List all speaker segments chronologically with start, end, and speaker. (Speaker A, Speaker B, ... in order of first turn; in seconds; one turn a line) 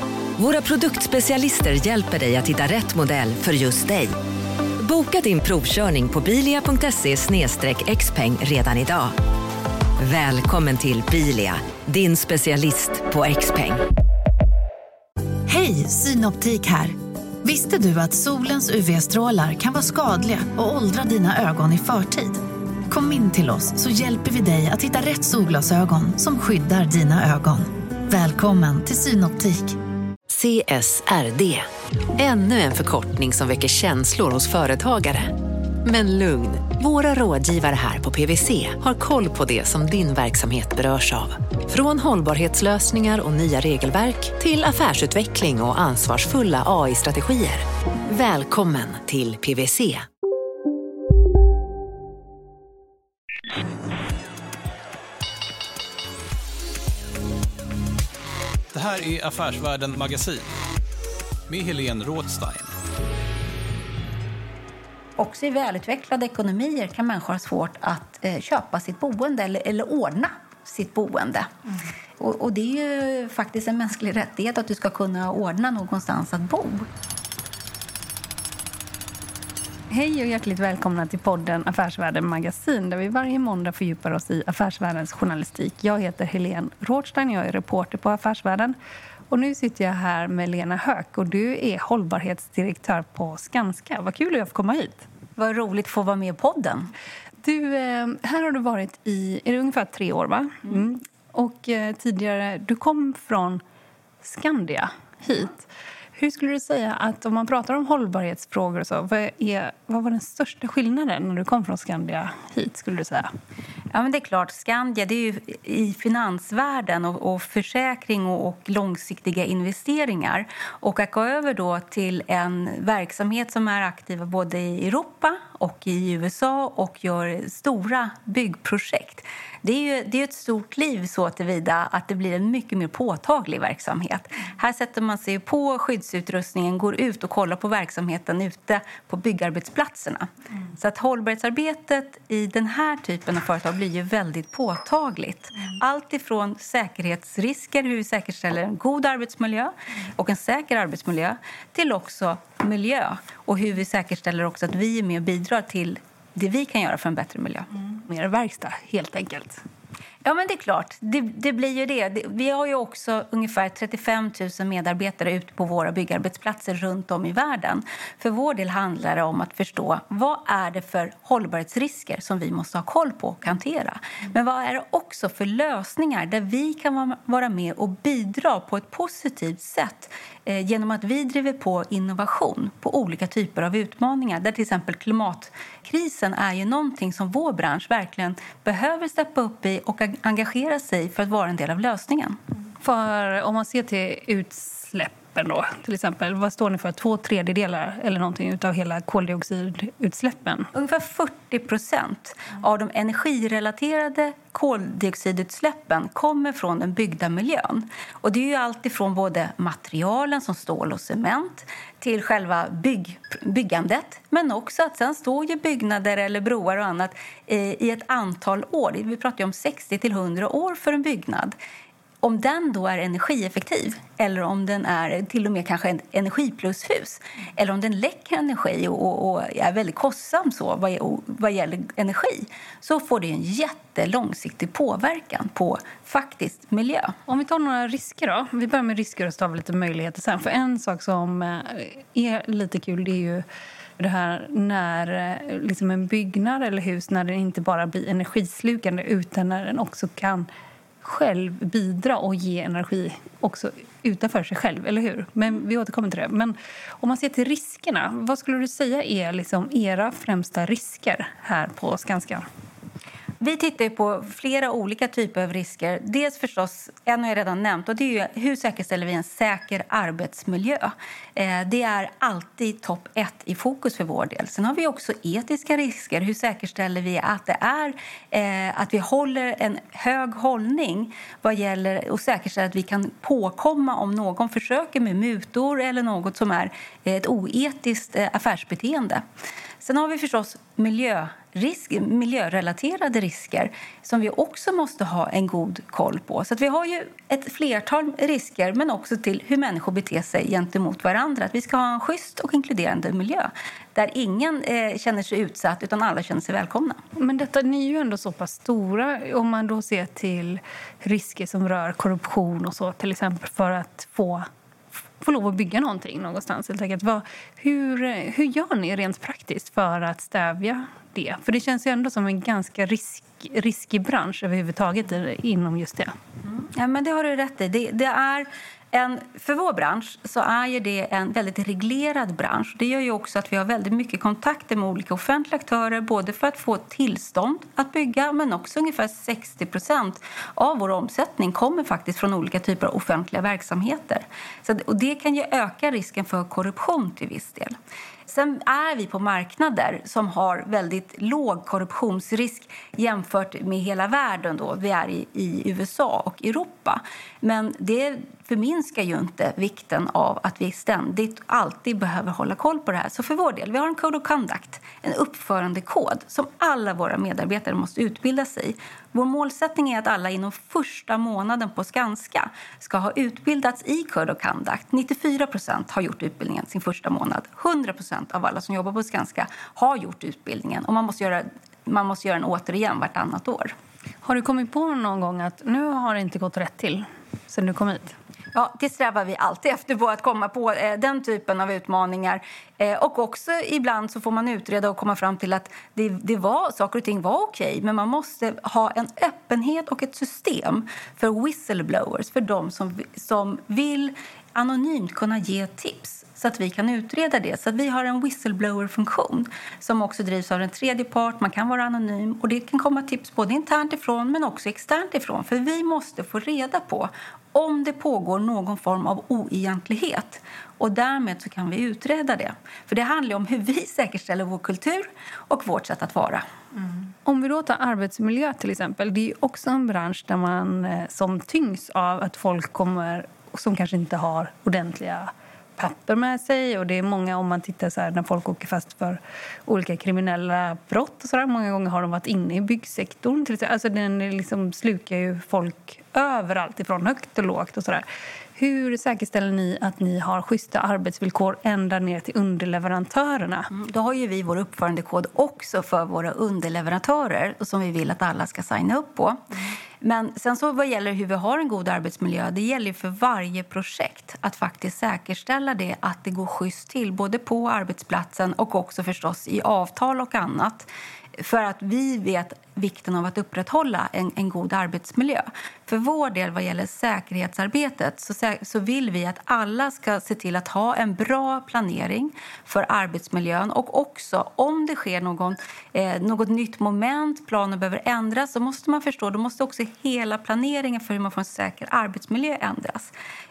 Speaker A: 0.4-4.1
Speaker A: 4.8-9.2
Speaker A: 10.0-13.8
Speaker B: 15.5-29.8
Speaker C: 30.3-50.1
Speaker D: 58.7-60.5
Speaker D: 61.5-62.7
Speaker E: 65.2-71.5
Speaker E: 72.2-76.9
Speaker F: 79.9-88.8
Speaker F: 89.3-95.0
Speaker E: 95.4-96.9
Speaker F: 97.4-103.6
Speaker F: 104.2-113.3
Speaker E: 113.9-157.7
Speaker F: 157.9-159.6
Speaker E: 160.2-192.4
Speaker F: 192.8-200.7
Speaker E: 200.7-221.6
Speaker E: 222.2-237.2
Speaker F: 237.3-243.4
Speaker F: 244.0-250.5
Speaker F: 251.0-262.5
Speaker E: 263.4-289.2
Speaker E: 289.8-307.0
Speaker F: 307.2-314.5
Speaker F: 315.2-326.1
Speaker E: 326.4-347.8
Speaker E: 348.3-383.8
Speaker F: 384.2-388.2
Speaker E: 388.5-426.4
Speaker F: 427.3-448.1
Speaker F: 448.6-453.7
Speaker E: 453.7-459.4
Speaker E: 460.0-493.1